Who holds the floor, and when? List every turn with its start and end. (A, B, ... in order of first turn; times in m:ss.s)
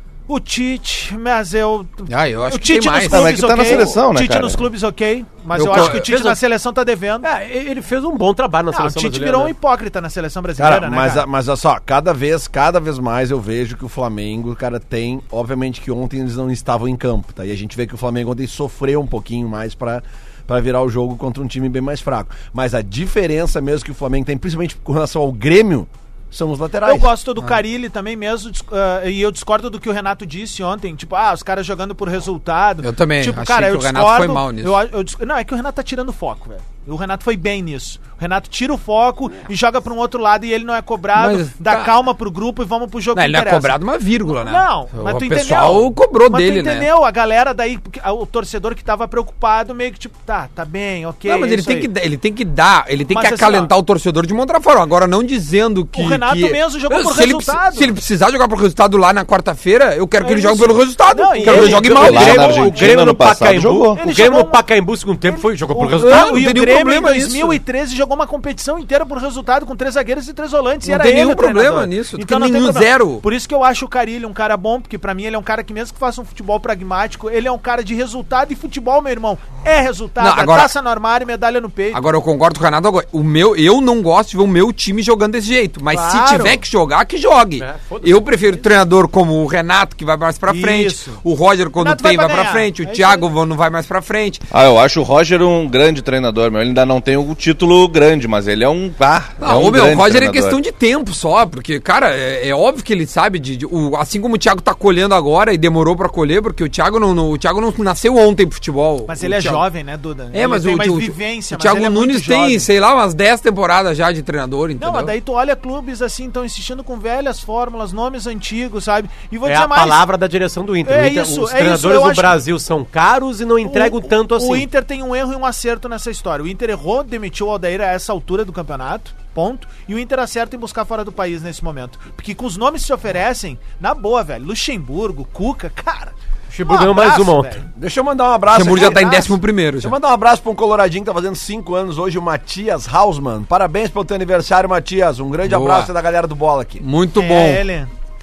0:00.3-0:07.3 A
0:02.1-0:03.6 B
0:03.1-0:04.6 C
0:05.6-0:06.1 B
0:05.7-0:06.4 D
0:07.2-0:09.5 D
0:08.7-0:11.3 A
0:10.6-0:27.1 E
0:26.8-0:51.9 A
0:32.8-0:34.8 B
0:41.2-0:41.9 B
0:43.2-0:46.9 B
0:51.3-1:02.7 B
0:53.1-0:53.7 A
0:56.0-0:57.9 A
1:00.2-1:02.9 A
1:01.4-1:06.4 D
1:01.7-1:04.0 C
1:04.0-1:04.6 A
1:05.3-1:22.0 A
1:06.0-1:07.6 B
1:10.8-1:13.2 B
1:20.2-1:20.7 B
1:21.9-1:34.4 B
1:25.9-1:26.6 A
1:27.6-1:28.6 D
1:30.5-1:31.2 A
1:31.8-1:33.3 A
1:34.5-1:40.6 C
1:39.4-1:49.6 B
1:49.1-1:52.7 A
1:50.3-1:55.1 B
1:54.8-2:00.0 A
1:59.4-2:04.7 D
2:00.9-2:02.4 A
2:03.6-2:16.1 A
2:16.5-2:17.6 D
2:16.6-2:17.7 A
2:17.8-2:19.3 E
2:18.5-2:20.0 B
2:18.6-2:19.3 A
2:19.8-2:26.8 E
2:25.4-2:25.9 B
2:26.8-2:27.6 B
2:27.2-2:27.9 A